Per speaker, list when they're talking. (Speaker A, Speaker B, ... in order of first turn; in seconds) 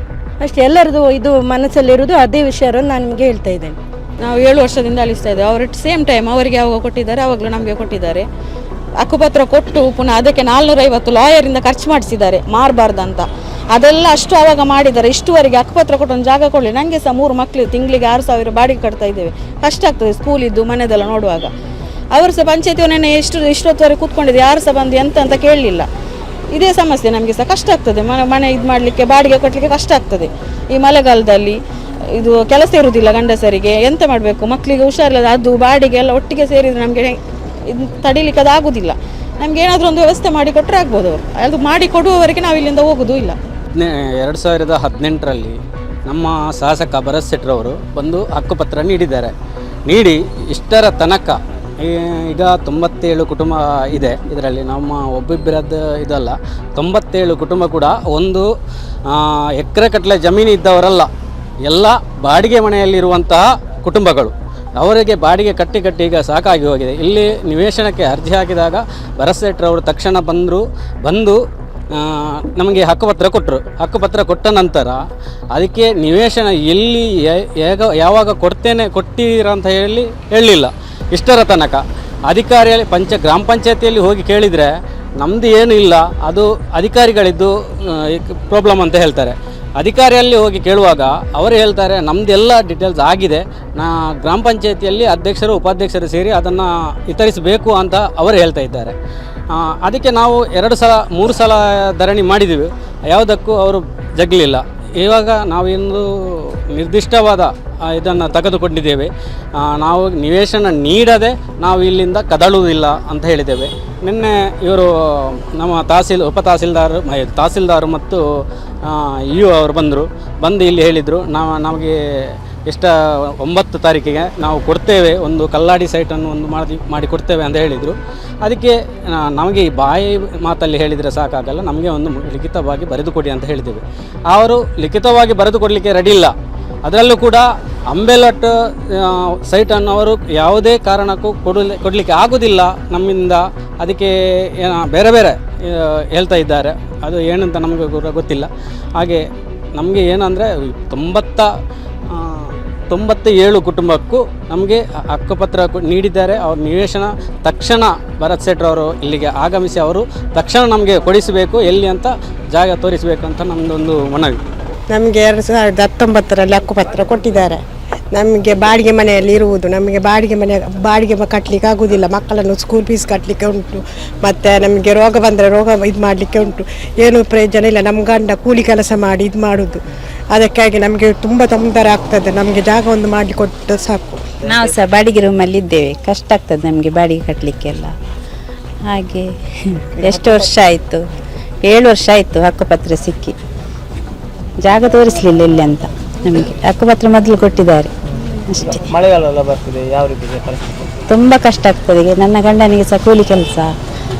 Speaker A: 0.4-3.8
Speaker B: 4.2-8.2, 9.0-21.5, 22.1-25.9, 26.5-31.6, 32.1-43.4
Speaker C: 43.7-49.3, 49.9-58.5, 59.1-61.1, 61.6-71.4, 71.9-75.0, 75.5-99.0, 99.5-118.2, 118.8-136.3, 136.8-149.2, 149.7-151.5, 152.1-164.4
Speaker D: 164.9-167.6, 168.1-179.8, 180.3-184.3, 190.0-190.3
Speaker E: 184.5-187.9, 188.8-191.1, 191.6-193.3, 194.6-197.9, 198.5-198.8, 201.1-203.7
Speaker F: 198.6-201.0